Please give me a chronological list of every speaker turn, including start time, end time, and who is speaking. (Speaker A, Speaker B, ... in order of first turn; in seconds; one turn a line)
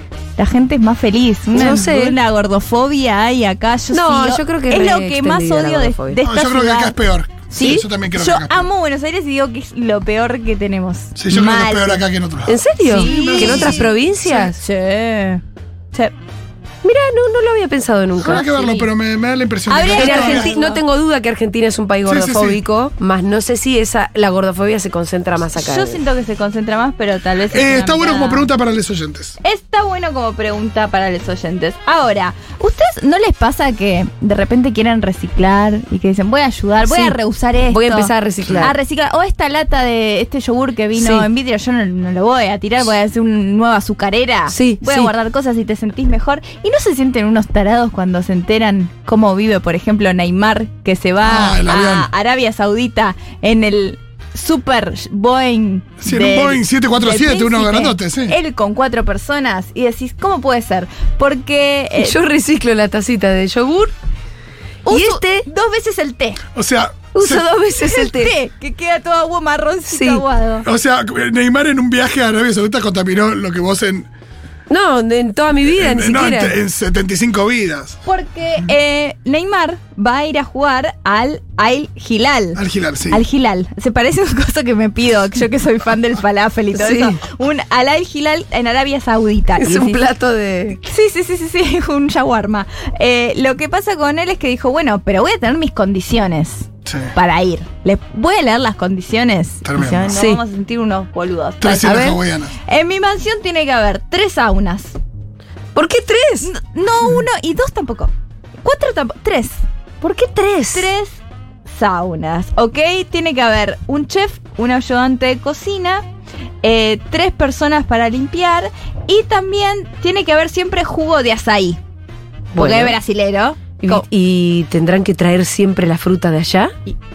Speaker A: 0.4-7.0
Speaker B: 1.5-2.2
Speaker B: 3.9-6.2
Speaker C: 6.2-8.7
Speaker A: 7.5-12.0
Speaker B: 7.6-7.8
Speaker C: 11.2-13.9
Speaker B: 12.5-14.6
Speaker A: 12.9-15.4
Speaker B: 16.8-18.6
Speaker C: 18.2-20.5
Speaker A: 18.2-18.9
Speaker A: 19.7-20.8
Speaker B: 19.9-26.0
Speaker C: 22.1-22.6
Speaker A: 25.6-28.5
Speaker C: 27.5-29.4
Speaker A: 29.4-62.2
Speaker B: 36.9-37.2
Speaker B: 37.7-38.7
Speaker B: 41.0-41.3
Speaker B: 44.5-45.1
Speaker C: 51.2-52.1
Speaker C: 56.0-58.4
Speaker B: 62.0-63.9
Speaker A: 64.9-66.4
Speaker B: 64.9-65.5
Speaker C: 66.5-67.5
Speaker B: 67.1-68.3
Speaker A: 67.8-70.7
Speaker B: 69.9-70.2
Speaker C: 70.6-74.1
Speaker B: 74.7-76.6
Speaker C: 75.7-78.0
Speaker A: 78.0-90.0
Speaker C: 82.6-83.2
Speaker B: 86.7-87.2
Speaker B: 89.6-90.8
Speaker A: 90.8-105.0
Speaker C: 96.9-97.1
Speaker C: 99.7-100.2
Speaker B: 100.1-100.4
Speaker C: 101.6-102.5
Speaker B: 101.8-102.2
Speaker B: 105.8-106.5
Speaker A: 106.4-109.6
Speaker B: 110.0-110.9
Speaker A: 110.7-116.0
Speaker A: 116.6-121.8
Speaker B: 122.5-123.0
Speaker A: 122.6-124.0
Speaker B: 123.8-126.7